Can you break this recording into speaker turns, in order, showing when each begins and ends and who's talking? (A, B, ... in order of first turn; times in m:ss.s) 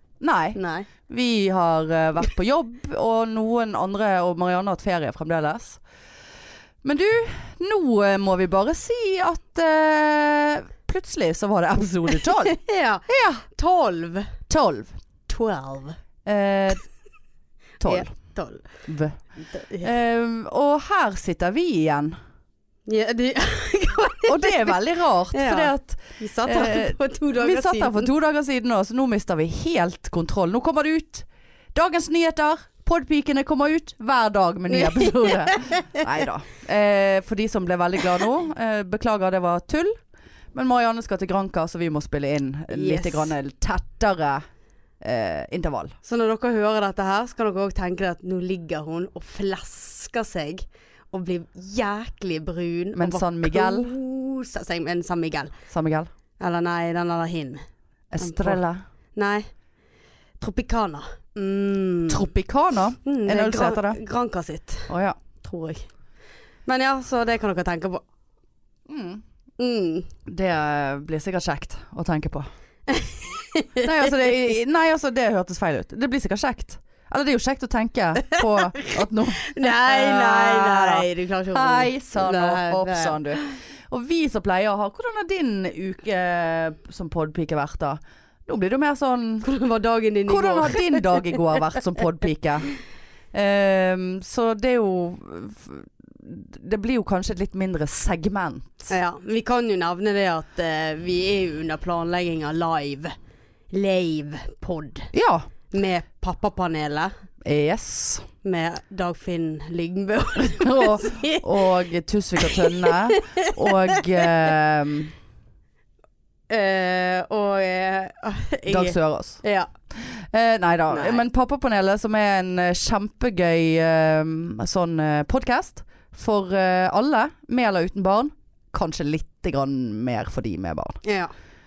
0:00.2-0:05.8 A
0:00.5-0:00.9 B
0:06.8-0:12.6 A
0:12.4-0:14.3 B
0:13.1-0:13.4 A
0:14.5-0:14.9 A
0:15.3-0:16.0 B
0:16.2-0:16.8 A
0:17.8-0:18.1 A
0:17.8-0:18.7 B
0:18.8-0:19.2 A
0:19.4-0:19.9 B
0:19.8-0:22.2 A
0:22.9-0:24.7 B
0:24.2-0:39.9 A
0:25.3-0:28.1 B
0:34.7-0:36.0 B
0:40.5-0:44.4 A
0:42.7-0:43.3 B
0:45.0-0:46.0 A
0:46.0-0:55.5 B
0:52.9-0:53.9 A
0:55.7-0:56.1 A
0:56.4-0:57.6 B
0:58.1-0:58.8 A
0:58.2-0:58.6 B
0:59.1-0:59.5 B
1:00.4-1:02.3 B
1:02.1-1:04.0 A
1:03.0-1:05.9 B
1:04.9-1:05.2 A
1:06.6-1:08.0 B
1:08.9-1:09.2 A
1:09.6-1:10.1 B
1:10.3-1:12.5 A
1:12.9-1:14.1 B
1:13.8-1:29.4 A
1:18.3-1:23.5 B
1:29.4-1:31.4 B
1:30.3-1:32.7 A
1:33.3-1:38.9 A
1:38.9-1:43.1 B
1:43.7-1:45.1 B
1:45.1-1:45.5 A
1:45.7-1:47.1 B
1:47.4-1:48.3 A
1:48.4-1:51.7 B
1:50.5-1:55.1 A
1:52.4-1:54.5 B
1:56.5-1:59.7 B
1:58.7-1:59.4 A
1:59.9-2:11.0 A
2:00.9-2:01.2 B
2:11.0-2:11.3 B